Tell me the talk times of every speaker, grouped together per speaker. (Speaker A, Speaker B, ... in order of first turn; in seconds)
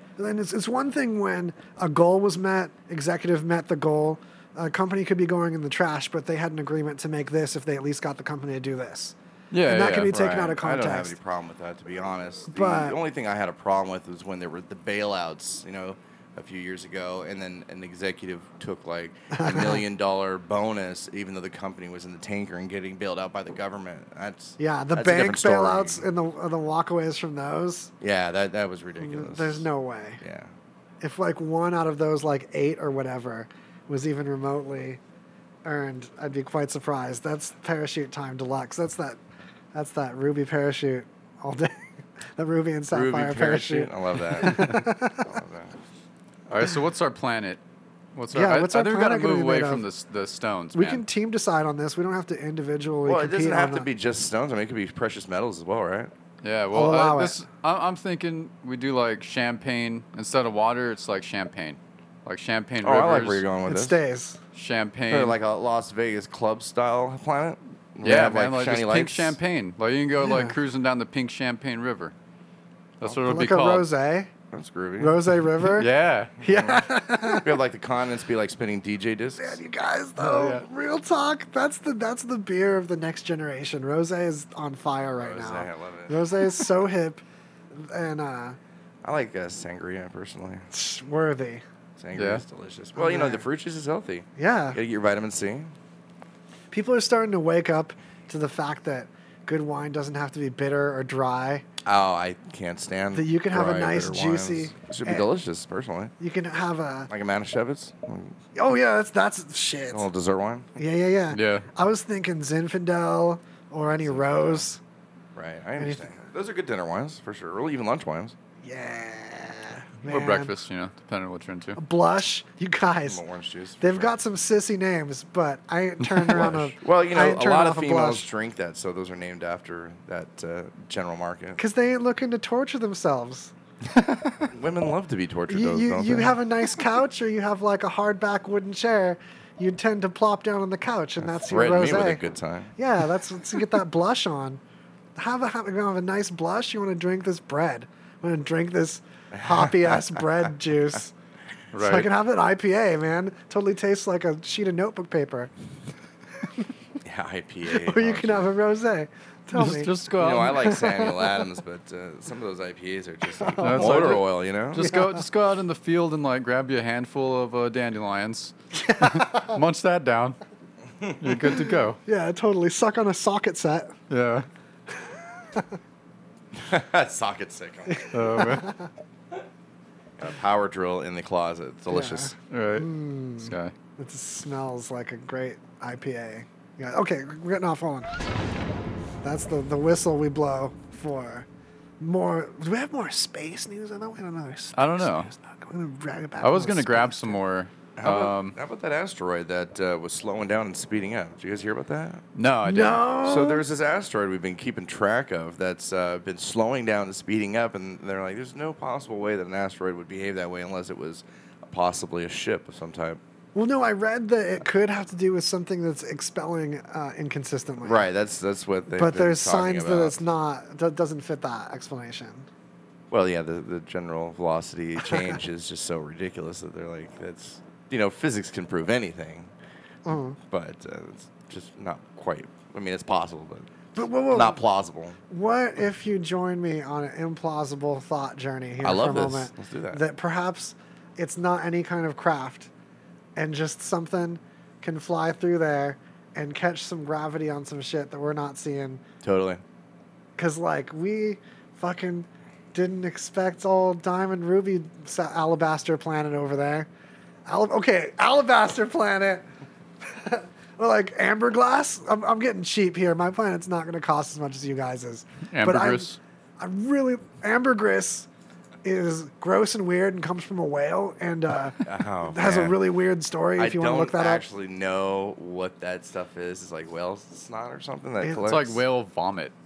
Speaker A: 0.2-11.2, 12.5-13.0, 19.3-19.8, 24.6-27.9, 29.0-30.2, 31.0-35.0, 35.6-39.2, 39.7-45.3, 48.3-49.9, 50.7-53.9, 56.7-57.4, 63.7-64.4, 70.2-70.6, 73.2-74.3, 75.0-75.9, 76.4-77.5, 79.4-88.6, 90.7-91.6, 93.0-93.4, 94.4-94.8, 96.7-101.6, 103.1-105.3, 106.2-107.1, 108.5-110.0, 110.8-114.8, 115.8-116.0, 118.6-120.5, 121.8-123.2, 123.8-128.3, 131.6-133.5, 135.5-142.2, 142.8-144.6, 145.2-151.1, 151.8-155.5, 157.7-159.9, 160.6-161.3, 163.4-164.2, 164.9-165.2, 168.8-169.6, 172.0-173.9, 177.9-178.9, 181.9-188.2, 189.2-191.5, 192.0-197.4, 202.6-203.7, 213.5-218.1, 218.9-222.5, 225.1-225.3, 230.0-230.4, 233.9-234.6, 235.3-242.7, 243.3-249.0, 250.4-256.9, 257.5-259.4, 260.0-268.3, 268.8-274.4, 278.2-278.6
Speaker B: 9.5-10.2, 46.5-47.6, 48.1-51.0, 56.4-63.4, 64.5-65.3, 68.0-72.1, 73.0-73.9, 75.8-76.3, 80.2-80.6, 92.1-92.4, 111.3-111.7, 120.0-121.8, 126.0-126.5, 151.7-152.1, 159.5-160.8, 163.6-170.4, 171.2-172.0, 174.1-174.5, 178.1-178.7, 182.5-183.7, 194.7-195.3, 196.4-198.6, 202.3-203.1, 265.5-266.2, 278.4-279.5
Speaker C: 10.0-26.1, 28.0-29.6, 30.2-30.5, 42.9-45.8, 53.0-56.1, 62.8-64.0, 65.1-69.3, 74.5-75.2, 76.4-79.6, 85.2-86.2, 89.0-90.7, 92.0-95.7, 101.8-106.1, 107.1-108.4, 109.9-110.7, 114.0-114.7, 115.3-118.3, 123.0-124.1, 126.3-131.6, 134.4-136.4, 141.3-142.7, 149.3-150.1, 157.0-158.5, 160.1-165.0, 171.0-171.5, 176.5-178.1, 180.2-182.3, 198.0-202.2, 203.2-213.2, 217.8-220.2, 223.1-229.5, 230.5-233.7, 234.3-235.2, 238.8-240.0, 249.2-249.6, 271.8-272.8, 273.6-278.8